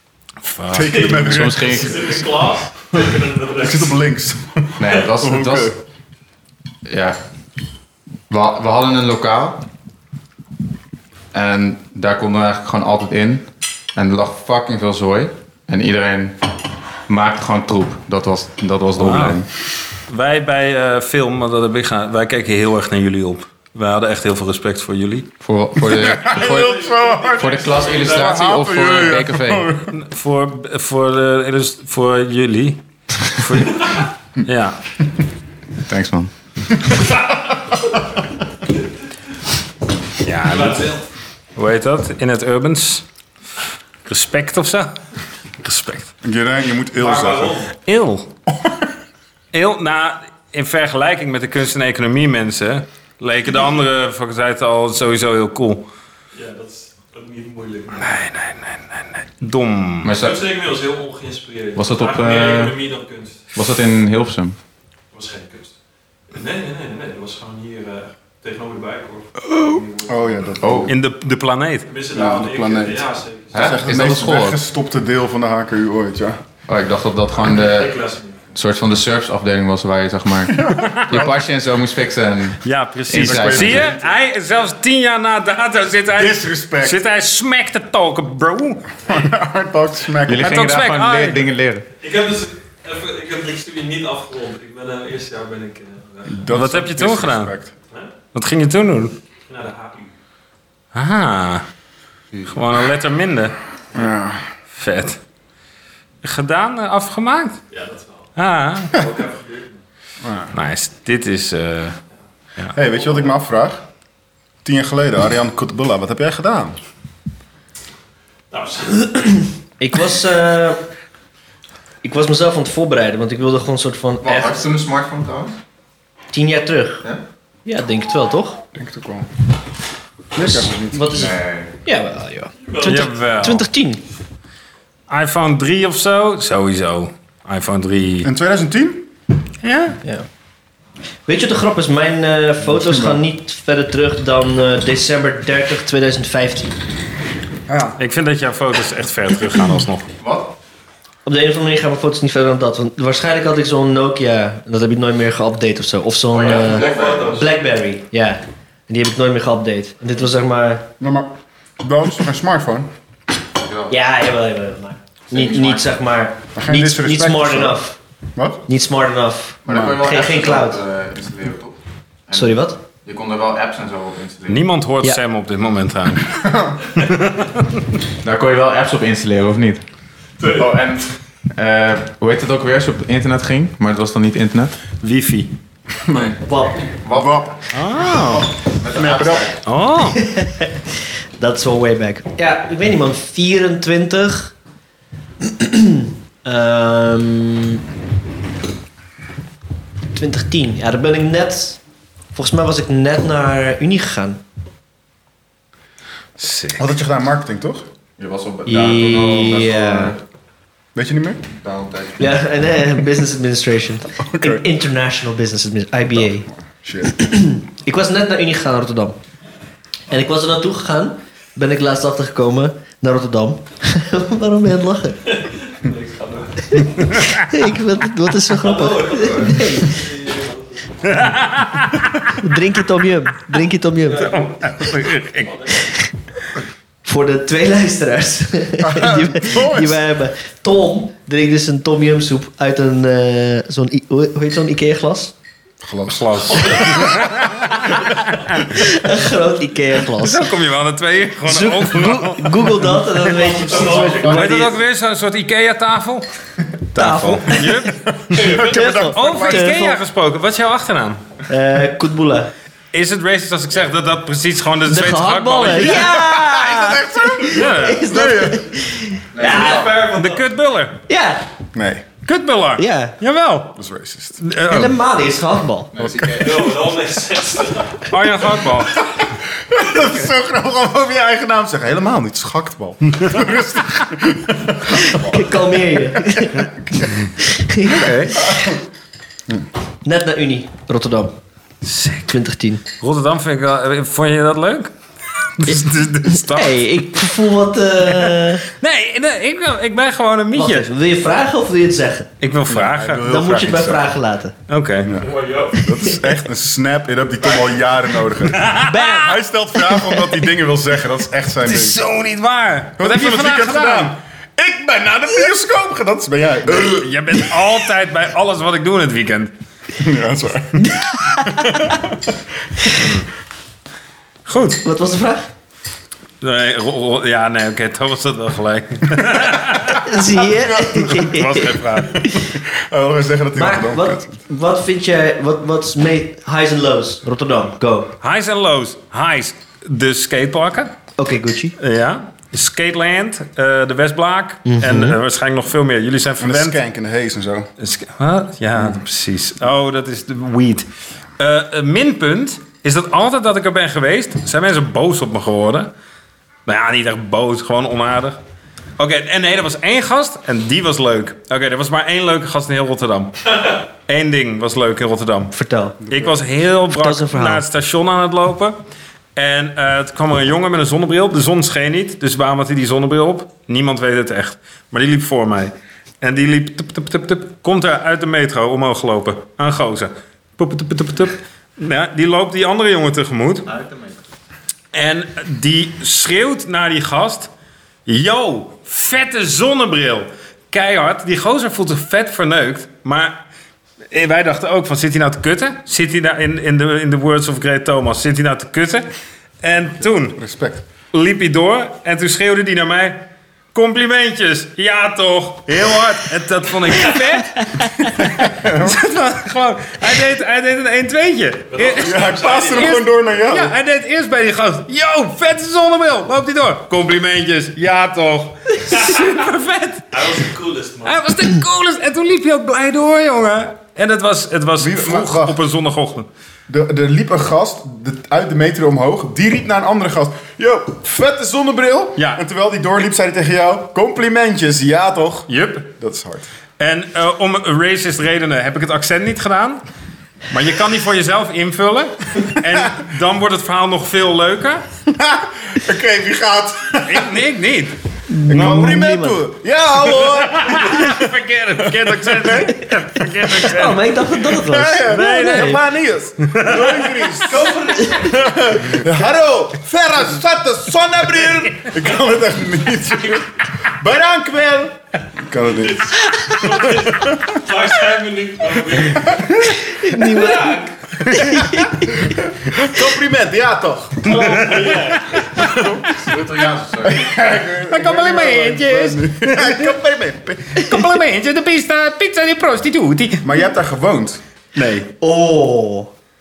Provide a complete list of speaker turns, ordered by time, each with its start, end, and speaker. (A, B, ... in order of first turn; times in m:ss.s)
0:00.4-0:01.4 A
0:00.7-0:02.1 B
0:01.0-0:04.0 C
0:01.2-0:02.2 D
0:03.6-0:05.8 B
0:04.8-0:05.8 D
0:06.9-0:07.2 D
0:08.3-0:09.6 D
0:11.3-0:16.4 D
0:17.1-0:19.5 D
0:19.0-0:25.3 A
0:25.4-0:26.8 D
0:25.9-0:30.0 B
0:26.3-0:28.3 C
0:27.3-0:29.7 D
0:29.9-0:35.0 A
0:35.9-0:36.3 D
0:40.2-0:40.9 A
0:40.4-0:41.1 C
0:41.6-0:43.1 A
0:44.0-0:45.0 A
0:45.6-0:46.1 A
0:46.2-0:47.6 B
0:47.0-0:47.7 C
0:47.8-0:48.3 A
0:48.5-0:48.8 B
0:49.5-0:55.9 A
0:56.3-0:58.1 C
0:58.0-1:00.1 A
1:00.0-1:00.5 D
1:00.1-1:03.5 C
1:01.8-1:02.8 D
1:03.5-1:04.6 D
1:05.1-1:05.7 C
1:06.3-1:10.5 C
1:09.6-1:10.9 B
1:10.6-1:10.9 D
1:10.9-1:11.9 A
1:11.9-1:13.8 C
1:12.1-1:16.4 B
1:13.5-1:14.6 D
1:16.7-1:18.0 D
1:17.5-1:18.4 C
1:18.5-1:23.9 D
1:20.5-1:21.4 B
1:20.8-1:21.2 A
1:22.6-1:28.9 A
1:23.2-1:23.9 B
1:26.1-1:27.0 B
1:29.1-1:30.6 B
1:30.2-1:31.9 D
1:30.4-1:31.5 A
1:32.0-1:36.5 C
1:36.3-1:37.7 B
1:36.5-1:37.5 A
1:38.3-1:39.2 A
1:39.5-1:40.1 C
1:40.9-1:41.6 A
1:42.4-1:43.6 A
1:43.9-1:44.4 B
1:44.8-1:45.2 A
1:46.2-1:47.6 A
1:47.7-1:48.3 C
1:48.4-1:49.1 A
1:48.9-1:49.8 C
1:50.2-1:50.5 B
1:50.5-1:52.0 A
1:52.7-1:53.8 B
1:54.6-1:56.8 B
1:58.5-1:59.5 C
1:59.8-2:00.8 E
2:02.0-2:04.6 E
2:04.2-2:05.6 D
2:06.3-2:07.0 E
2:07.6-2:08.6 E
2:08.7-2:09.3 B
2:10.3-2:11.4 B
2:10.4-2:14.0 E
2:11.1-2:11.7 D
2:12.7-2:13.1 C
2:12.8-2:13.6 A
2:15.1-2:18.3 A
2:18.2-2:19.1 B
2:19.6-2:20.0 A
2:21.3-2:26.8 E
2:22.7-2:23.2 B
2:27.7-2:28.0 B
2:28.0-2:30.1 A
2:30.2-2:30.5 D
2:31.2-2:40.9 E
2:36.3-2:37.4 D
2:36.5-2:37.5 C
2:41.0-2:42.9 B
2:43.6-2:43.9 D
2:43.9-2:48.0 E
2:45.3-2:45.9 D
2:46.6-2:47.8 B
2:48.4-2:48.6 B
2:48.7-2:50.8 E
2:49.6-2:51.8 D
2:49.7-2:50.0 B
2:52.3-2:54.6 D
2:52.3-2:52.8 E
2:54.5-2:56.4 A
2:56.4-2:56.8 B
2:57.0-2:57.8 A
2:58.2-2:59.8 D
3:00.4-3:00.7 C
3:00.4-3:04.7 D
3:05.0-3:05.5 A
3:06.0-3:06.4 B
3:06.4-3:06.9 E
3:06.9-3:07.5 D
3:07.1-3:07.6 B
3:07.7-3:08.5 A
3:08.4-3:09.6 D
3:08.9-3:09.5 B
3:09.6-3:10.2 A
3:10.1-3:14.5 E
3:15.4-3:17.8 E
3:20.1-3:21.8 E
3:22.3-3:24.4 E
3:26.4-3:26.8 A
3:26.8-3:27.8 B
3:28.2-3:30.2 D
3:28.7-3:30.2 E
3:31.0-3:31.4 B
3:31.6-3:32.4 D
3:32.2-3:36.5 E
3:34.2-3:34.7 B
3:36.8-3:37.1 B
3:37.0-3:39.2 E
3:40.1-3:45.3 E
3:45.3-3:47.1 C
3:46.8-3:49.9 E
3:47.0-3:47.5 A
3:48.5-3:51.3 C
3:51.0-3:52.4 A
3:52.4-3:54.4 E
3:54.0-3:55.9 C
3:54.2-3:55.6 A
3:55.8-3:56.1 E
3:57.0-4:05.3 E
3:58.8-4:00.0 B
4:05.8-4:07.2 B
4:06.1-4:08.8 A
4:06.5-4:07.0 C
4:08.7-4:10.5 E
4:10.2-4:13.2 A
4:11.5-4:14.8 E
4:13.4-4:14.5 C
4:14.1-4:16.3 A
4:16.9-4:21.2 A
4:17.0-4:17.8 E
4:17.9-4:19.9 B
4:18.4-4:18.7 C
4:18.4-4:20.0 E
4:21.5-4:22.5 E
4:22.9-4:26.0 A
4:24.9-4:30.0 E
4:25.7-4:28.7 B
4:27.5-4:28.2 A
4:29.3-4:30.1 D
4:29.4-4:30.4 C
4:30.0-4:31.0 A
4:31.1-4:31.4 E
4:31.7-4:32.1 B
4:32.2-4:33.8 A
4:32.8-4:33.2 E
4:33.8-4:34.4 B
4:34.4-4:35.0 A
4:34.7-4:35.9 E
4:35.9-4:36.8 D
4:36.0-4:36.6 B
4:36.4-4:38.1 C
4:38.1-4:39.1 A
4:38.9-4:47.2 B
4:44.9-4:46.7 E
4:47.4-4:48.7 E
4:47.9-4:48.4 A
4:50.0-4:51.4 E
4:51.8-4:52.3 A
4:52.3-4:52.8 E
4:53.0-4:57.0 A
4:55.6-4:58.6 E
4:58.0-5:00.9 A
5:00.6-5:02.3 E
5:02.4-5:03.3 A
5:02.7-5:04.1 B
5:03.2-5:04.6 E
5:04.7-5:05.2 A
5:05.0-5:12.0 B
5:05.2-5:05.8 C
5:05.9-5:06.2 E
5:08.4-5:09.2 A
5:08.8-5:09.4 E
5:11.6-5:14.2 A
5:13.0-5:17.7 B
5:16.8-5:19.5 A
5:20.0-5:22.2 B
5:20.8-5:22.0 E
5:23.0-5:23.2 A
5:24.5-5:24.8 A
5:24.8-5:25.5 E
5:26.4-5:30.2 A
5:30.0-5:32.5 E
5:30.8-5:32.2 A
5:32.1-5:34.3 B
5:33.6-5:38.2 E
5:38.2-5:41.0 A
5:41.2-5:41.8 E
5:41.8-5:46.8 A
5:44.7-5:45.2 E
5:46.4-5:47.7 B
5:47.8-5:50.9 A
5:51.4-5:55.9 A
5:56.7-5:58.4 A
5:59.0-6:05.5 A
6:05.5-6:06.0 E
6:06.1-6:06.4 B
6:06.1-6:08.8 A
6:06.9-6:07.6 E
6:09.4-6:23.7 A
6:23.7-6:24.2 D
6:24.9-6:27.5 A
6:28.1-6:33.4 A
6:34.1-6:39.1 A
6:39.6-6:40.4 A
6:40.4-6:40.8 B
6:41.1-7:00.4 A
6:48.2-6:49.0 B
6:51.7-6:53.0 C
6:52.0-6:53.8 B
6:58.9-6:59.3 C
7:00.1-7:01.2 C
7:01.0-7:06.3 A
7:04.8-7:05.6 B
7:06.7-7:16.5 B
7:12.2-7:12.4 A
7:15.5-7:15.9 A
7:16.8-7:19.8 A
7:20.5-7:24.8 A
7:22.6-7:23.0 B
7:25.1-7:27.4 B
7:27.0-7:29.0 A
7:28.3-7:29.4 E
7:28.5-7:32.9 B
7:30.2-7:34.2 A
7:33.5-7:35.8 E
7:34.5-7:46.1 B
7:35.0-7:35.9 A
7:36.4-7:37.4 A
7:37.5-7:38.5 C
7:37.8-7:38.3 E
7:45.8-7:50.9 C
7:47.0-7:47.6 B
7:49.3-7:49.8 B
7:49.7-7:52.1 E
7:52.0-7:54.4 B
7:54.2-7:55.5 C
7:54.2-7:55.9 A
7:55.6-7:56.0 B
7:56.0-7:57.3 D
7:57.0-8:00.8 B
7:57.8-8:00.0 A
8:00.7-8:03.5 A
8:03.4-8:04.4 B
8:04.8-8:05.1 A
8:05.2-8:06.1 E